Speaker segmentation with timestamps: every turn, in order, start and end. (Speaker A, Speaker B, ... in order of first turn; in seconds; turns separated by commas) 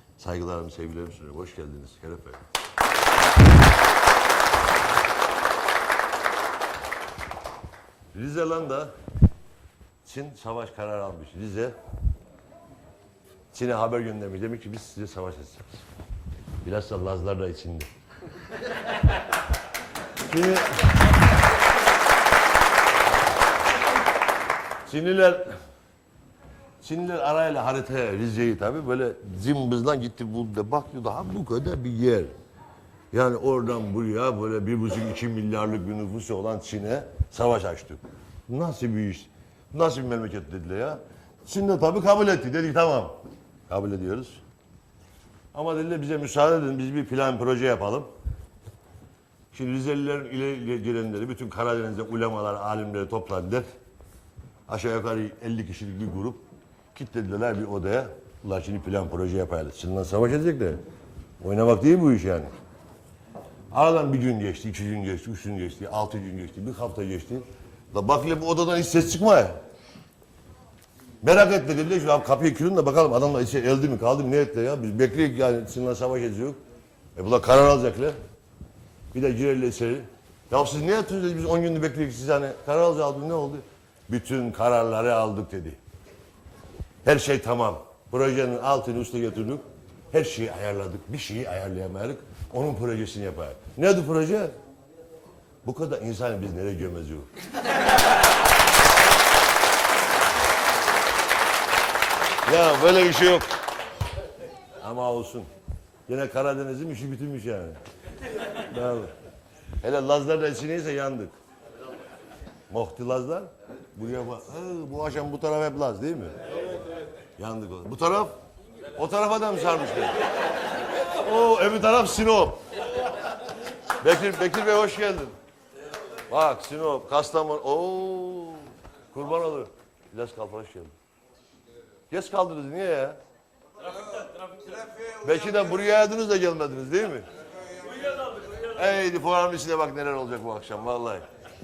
Speaker A: 0.2-2.4, Speaker A: 8.1-8.9, Speaker A: 10.0-11.8, Speaker A: 13.5-15.8, Speaker A: 16.6-17.9, Speaker A: 20.3-20.8, Speaker A: 24.9-25.6, Speaker A: 26.8-32.3, Speaker A: 33.1-43.2, Speaker A: 43.7-44.4, Speaker A: 45.5-48.1, Speaker A: 49.5-53.7, Speaker A: 54.7-56.4, Speaker A: 56.9-60.8, Speaker A: 61.4-62.5, Speaker A: 63.7-69.6, Speaker A: 71.2-76.6, Speaker A: 77.2-78.2, Speaker A: 79.1-85.8, Speaker A: 87.0-94.6, Speaker A: 95.6-97.3, Speaker A: 102.4-103.5, Speaker A: 104.8-105.5, Speaker A: 106.1-107.8, Speaker A: 108.4-109.1, Speaker A: 109.8-111.4, Speaker A: 112.7-116.4, Speaker A: 117.4-118.3, Speaker A: 119.0-120.2, Speaker A: 121.0-122.6, Speaker A: 124.0-125.4, Speaker A: 126.3-130.9, Speaker A: 132.1-133.2, Speaker A: 134.8-137.3, Speaker A: 137.8-141.3